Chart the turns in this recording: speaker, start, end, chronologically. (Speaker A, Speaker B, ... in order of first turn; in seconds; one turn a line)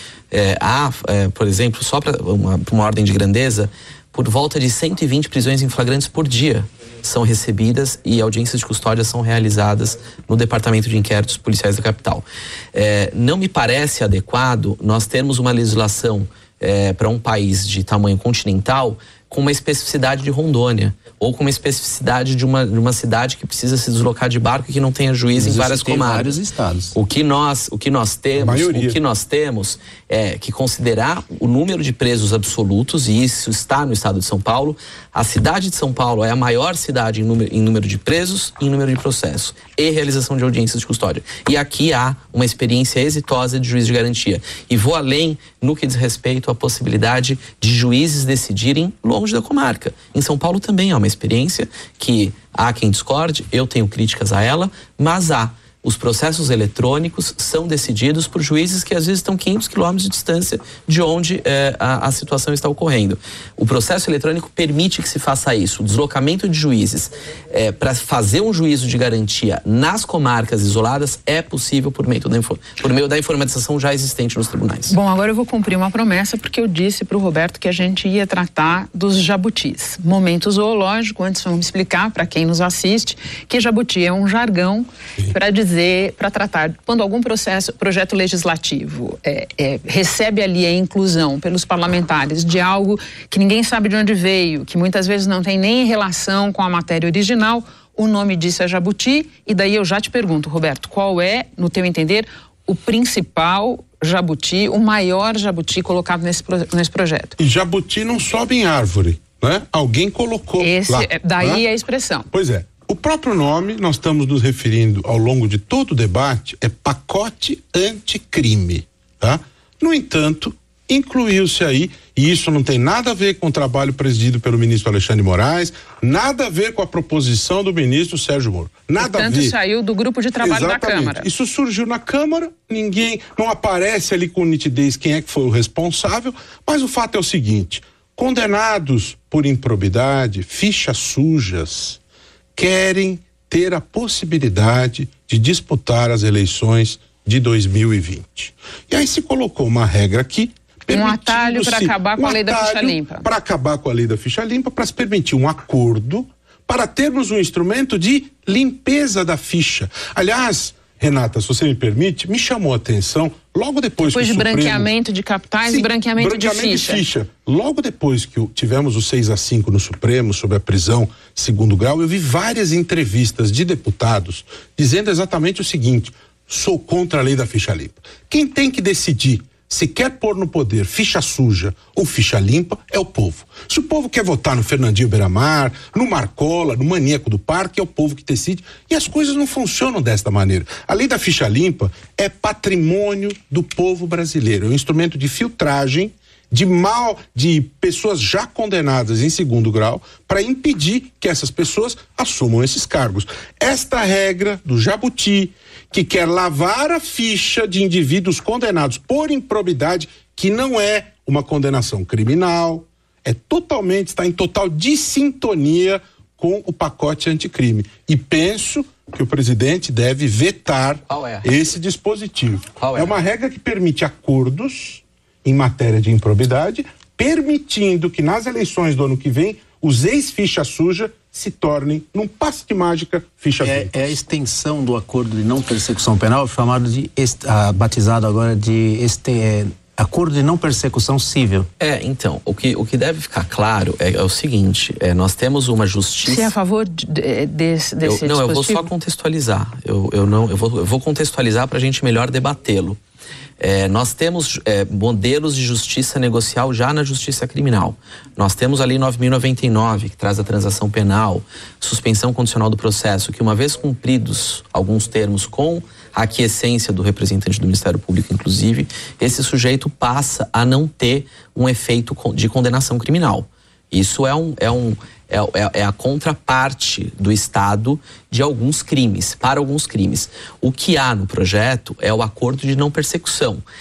Speaker A: 0.3-26.3
Speaker B: 25.4-26.9
Speaker A: 26.9-75.0
Speaker C: 28.4-28.9
Speaker D: 74.9-107.3
Speaker C: 107.4-111.6
Speaker D: 110.6-112.3
Speaker C: 112.3-129.5
Speaker D: 129.0-131.3
Speaker C: 130.4-142.0
Speaker C: 142.6-164.9
Speaker D: 150.9-153.3
Speaker D: 164.0-167.0
Speaker C: 165.7-234.1
Speaker A: 221.1-221.5
Speaker A: 222.8-223.2
Speaker B: 233.6-241.7
Speaker A: 241.8-246.5
Speaker D: 246.2-248.9
Speaker A: 248.0-253.0
Speaker A: 253.6-283.6